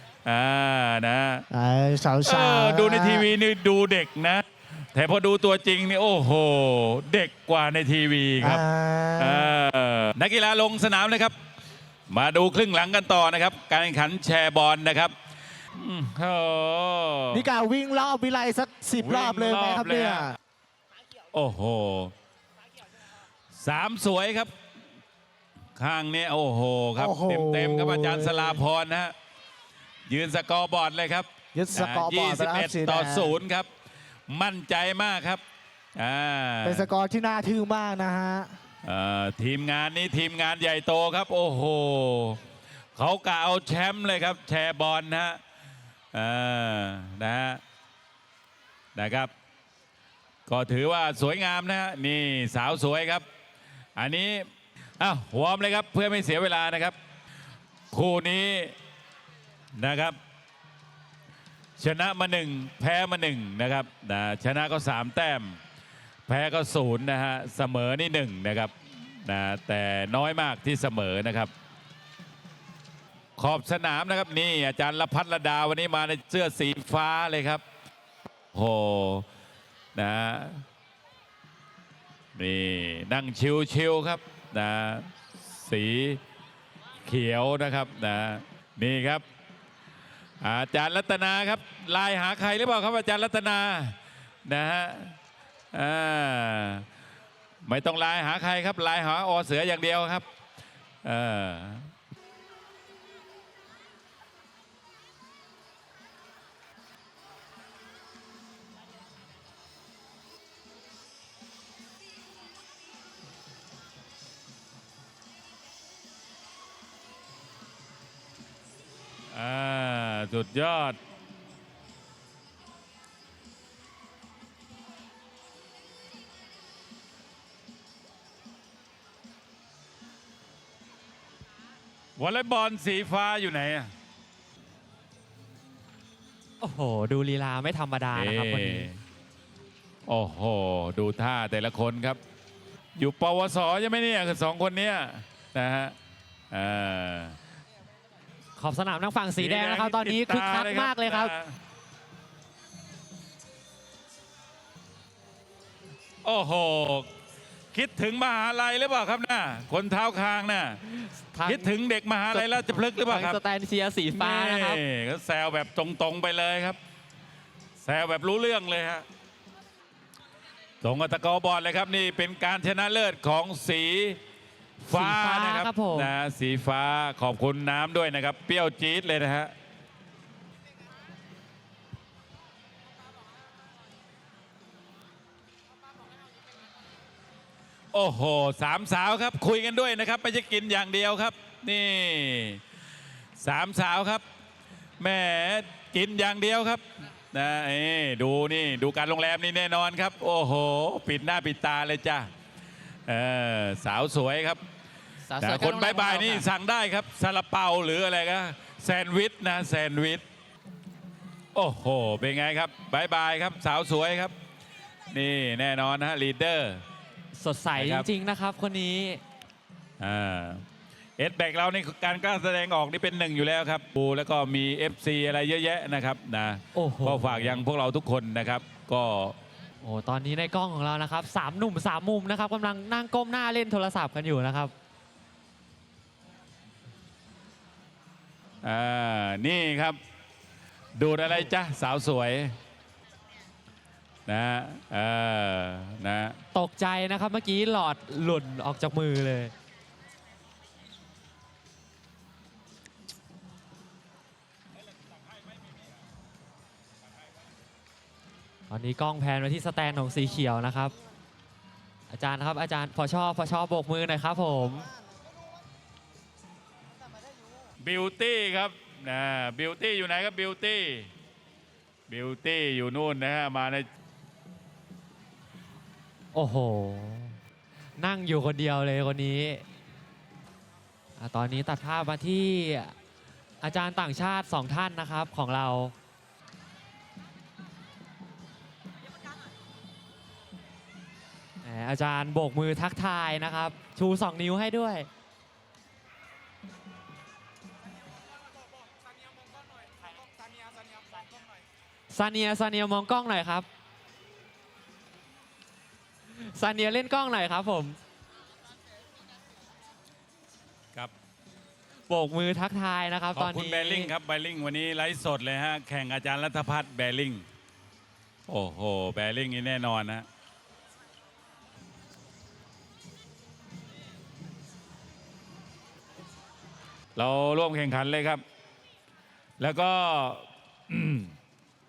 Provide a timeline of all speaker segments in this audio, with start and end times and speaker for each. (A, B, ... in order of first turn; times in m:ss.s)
0:00.2-0:01.4 A
0:01.5-0:03.3 B
0:02.2-0:08.6 A
0:08.4-0:09.5 B
0:09.2-0:11.3 A
0:12.1-0:15.1 A
0:15.7-0:17.5 A
0:17.3-0:20.4 B
0:19.0-0:20.3 A
0:21.3-0:22.1 A
0:23.5-0:24.5 A
0:25.8-0:29.1 A
0:27.0-0:28.6 B
0:30.1-0:33.7 A
0:31.5-0:33.4 B
0:34.3-0:35.4 A
0:36.0-0:36.9 A
0:36.6-0:38.5 B
0:38.8-0:42.4 A
0:42.9-0:45.4 A
0:46.1-0:47.6 A
0:48.9-0:49.3 A
0:50.5-0:53.2 A
0:54.0-0:54.5 A
0:55.0-0:57.0 A
0:57.9-0:58.7 A
0:59.8-1:00.2 A
1:01.8-1:05.6 A
1:06.3-1:08.7 A
1:09.2-1:11.5 A
1:13.4-1:17.6 A
1:18.5-1:19.2 A
1:19.9-1:20.6 A
1:22.4-1:26.2 A
1:27.0-1:29.2 A
1:30.4-1:35.2 A
1:35.7-1:36.8 A
1:37.6-1:40.2 A
1:41.0-1:41.9 A
1:59.3-2:01.0 A
2:12.2-2:13.9 A
2:16.6-2:18.9 C
2:18.1-2:19.0 A
2:20.1-2:22.2 A
2:23.0-2:25.9 A
2:26.5-2:27.4 A
2:28.6-2:31.3 C
2:29.4-2:31.6 A
2:36.2-2:37.1 A
2:37.7-2:40.8 A
2:41.3-2:41.8 C
2:41.4-2:43.4 A
2:42.3-2:44.8 C
2:44.1-2:46.8 A
2:47.8-2:49.0 A
2:50.8-2:54.2 A
2:54.8-2:59.5 A
2:54.9-2:56.1 C
3:07.9-3:12.6 A
3:13.4-3:14.2 A
3:15.0-3:22.3 A
3:23.0-3:24.6 A
3:25.3-3:26.5 C
3:25.4-3:30.2 A
3:31.5-3:34.3 A
3:35.1-3:36.8 A
3:37.3-3:39.2 C
3:37.8-3:38.1 A
3:40.0-3:40.6 A
3:41.2-3:49.4 A
3:46.7-3:47.6 C
3:49.8-3:54.7 C
3:58.6-4:00.0 A
4:01.0-4:02.5 A
4:04.3-4:06.4 A
4:06.5-4:09.5 C
4:18.7-4:21.0 C
4:22.1-4:24.9 C
4:27.8-4:31.1 A
4:32.1-4:33.9 A
4:36.3-4:37.4 C
4:38.0-4:39.6 C
4:41.2-4:42.9 C
4:43.6-4:45.9 C
4:51.6-4:55.1 C
5:02.1-5:03.6 C
5:06.3-5:08.0 C
5:12.1-5:14.1 C
5:13.3-5:17.4 A
5:18.5-5:20.2 A
5:27.2-5:28.4 A
5:29.6-5:31.3 A